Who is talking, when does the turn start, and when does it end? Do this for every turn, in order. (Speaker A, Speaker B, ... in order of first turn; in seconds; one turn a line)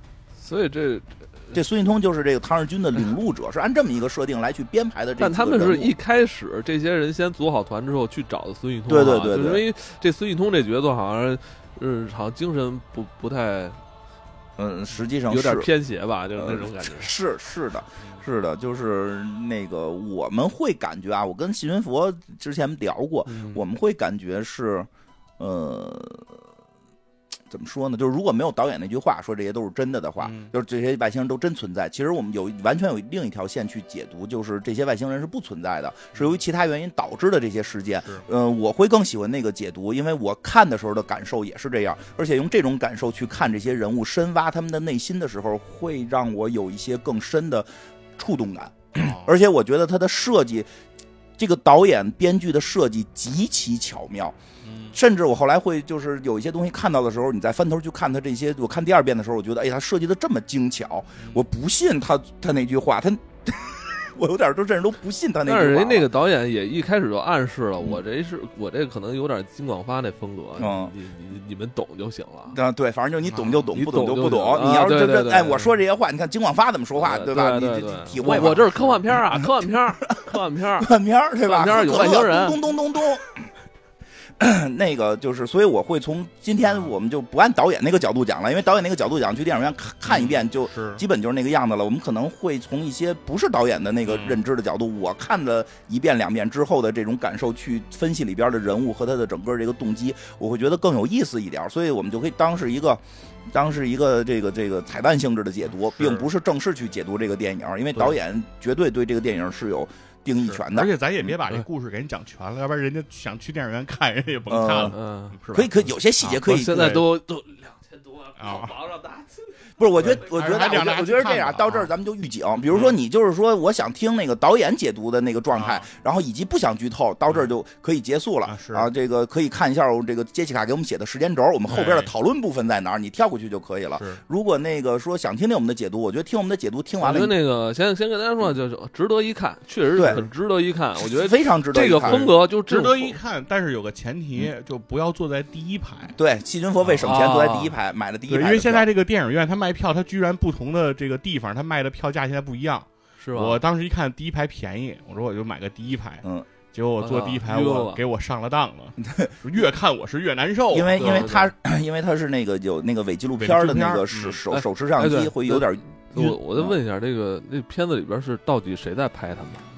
Speaker A: 0.4-1.5
Speaker B: 1.5-5.9
Speaker A: 5.2-13.8
Speaker B: 8.9-9.6
Speaker B: 14.6-15.7
Speaker A: 15.3-17.1
Speaker B: 16.4-26.4
Speaker A: 23.3-23.6
Speaker B: 27.5-50.7
Speaker C: 30.2-30.5
Speaker C: 36.1-36.4
Speaker C: 48.9-49.3
Speaker B: 51.4-54.4
Speaker C: 54.6-55.0
Speaker B: 54.9-66.1
Speaker A: 65.5-72.6
Speaker B: 70.6-70.9
Speaker B: 72.5-79.4
Speaker C: 73.2-73.7
Speaker A: 73.8-75.7
Speaker A: 77.0-82.6
Speaker C: 78.2-78.8
Speaker B: 80.1-83.5
Speaker B: 84.4-111.3
Speaker C: 86.6-86.9
Speaker C: 90.0-91.0
Speaker C: 94.1-94.4
Speaker C: 105.9-106.3
Speaker C: 110.4-117.0
Speaker B: 114.5-115.0
Speaker A: 114.8-115.4
Speaker B: 115.5-117.0
Speaker A: 116.3-120.2
Speaker C: 118.4-118.7
Speaker B: 119.8-137.3
Speaker C: 120.0-121.9
Speaker C: 122.7-123.0
Speaker C: 125.5-125.9
Speaker C: 128.4-128.9
Speaker C: 131.7-132.1
Speaker C: 134.0-134.2
Speaker A: 137.0-143.2
Speaker B: 139.9-140.2
Speaker B: 141.0-142.3
Speaker C: 142.0-146.2
Speaker B: 146.2-148.9
Speaker C: 146.8-147.1
Speaker A: 147.0-147.7
Speaker C: 148.3-161.3
Speaker A: 153.2-153.6
Speaker A: 157.0-158.0
Speaker B: 159.0-159.3
Speaker B: 160.7-166.7
Speaker A: 161.0-161.5
Speaker C: 163.4-164.4
Speaker A: 164.5-169.6